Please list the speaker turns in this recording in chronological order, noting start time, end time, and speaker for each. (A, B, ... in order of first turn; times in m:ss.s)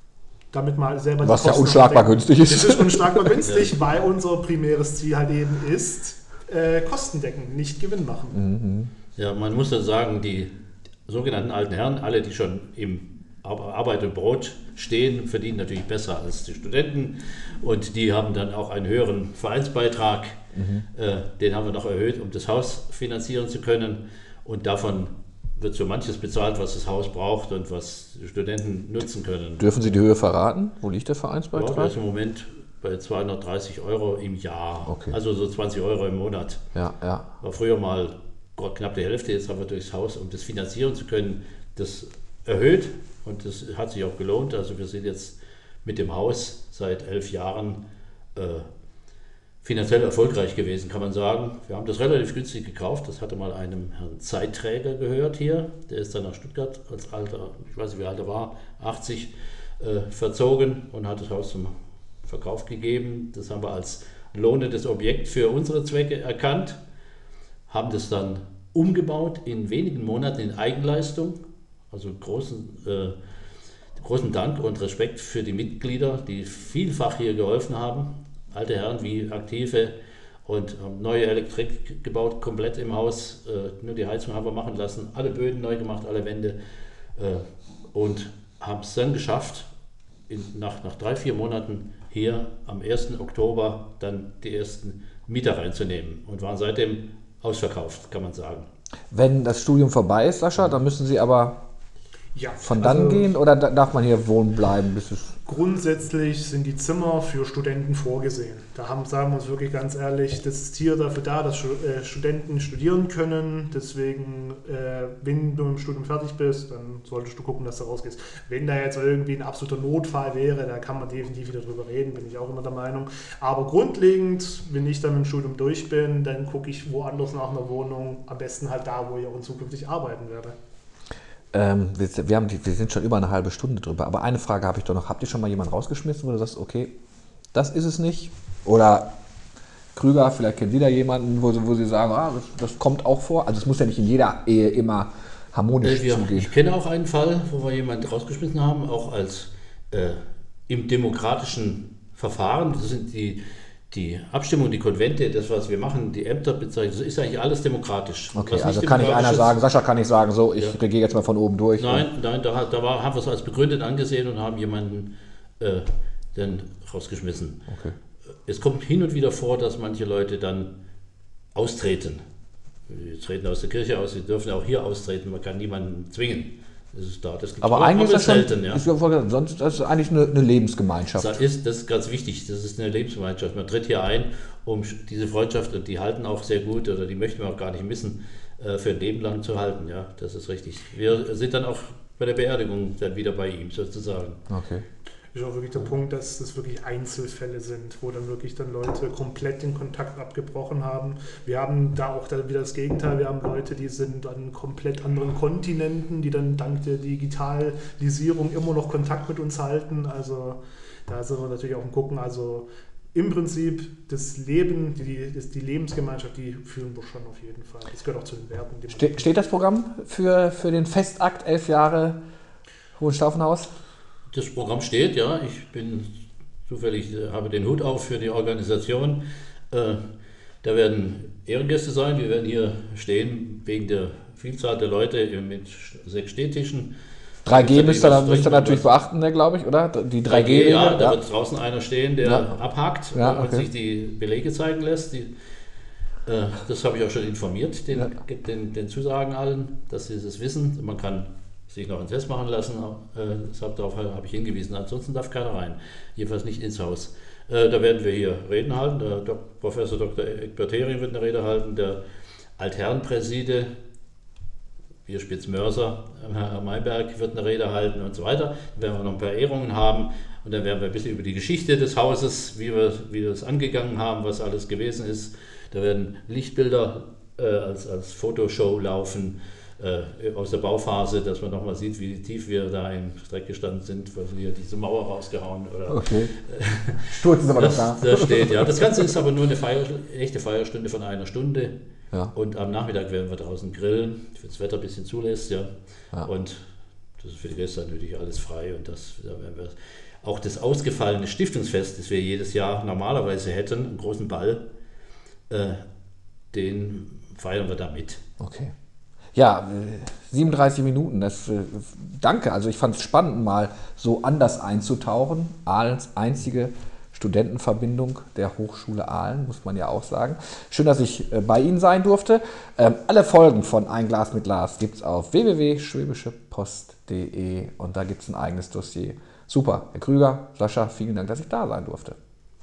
0:00.5-0:08.4 A
0:01.2-0:03.4 B
0:08.3-0:08.9 B
0:09.2-0:10.5 C
0:11.1-0:20.4 C
0:20.6-0:20.9 B
0:20.9-0:29.9 C
0:29.6-0:31.9 B
0:31.5-0:36.6 C
0:34.9-0:35.2 B
0:36.7-0:37.3 B
0:37.4-0:47.8 C
0:48.4-0:48.7 C
0:49.6-1:06.8 C
1:07.7-1:11.4 C
1:11.9-1:13.2 C
1:14.0-1:26.6 C
1:27.2-1:29.7 C
1:30.3-1:38.7 C
1:39.1-1:41.6 B
1:42.3-1:43.3 A
1:42.6-1:45.4 B
1:45.4-2:10.6 A
2:11.5-2:17.0 B
2:17.5-2:19.1 B
2:19.9-2:26.5 B
2:25.8-2:39.6 C
2:38.3-2:42.0 B
2:41.8-2:47.6 C
2:47.7-2:48.0 B
2:48.4-2:50.7 C
2:51.5-2:52.2 C
2:52.9-2:58.8 C
2:57.6-3:01.4 B
3:01.2-3:14.4 C
3:14.5-3:14.8 B
3:15.3-3:39.3 A
3:38.9-3:42.2 B
3:43.0-3:43.7 B
3:44.3-3:46.1 C
3:46.7-3:50.0 C
3:50.6-3:56.9 C
3:57.4-4:01.2 B
3:57.5-3:58.9 C
4:00.3-4:05.3 C
4:02.2-4:02.6 B
4:03.1-4:03.7 B
4:06.3-4:22.0 C
4:22.6-4:23.7 C
4:25.1-4:51.8 C
4:45.9-4:46.3 B
4:47.1-4:49.1 B
4:52.3-4:55.7 C
4:56.2-4:56.7 C
4:57.2-5:04.6 C
5:05.5-5:05.8 C
5:06.5-5:08.2 C
5:08.4-5:08.7 B
5:09.3-5:32.2 B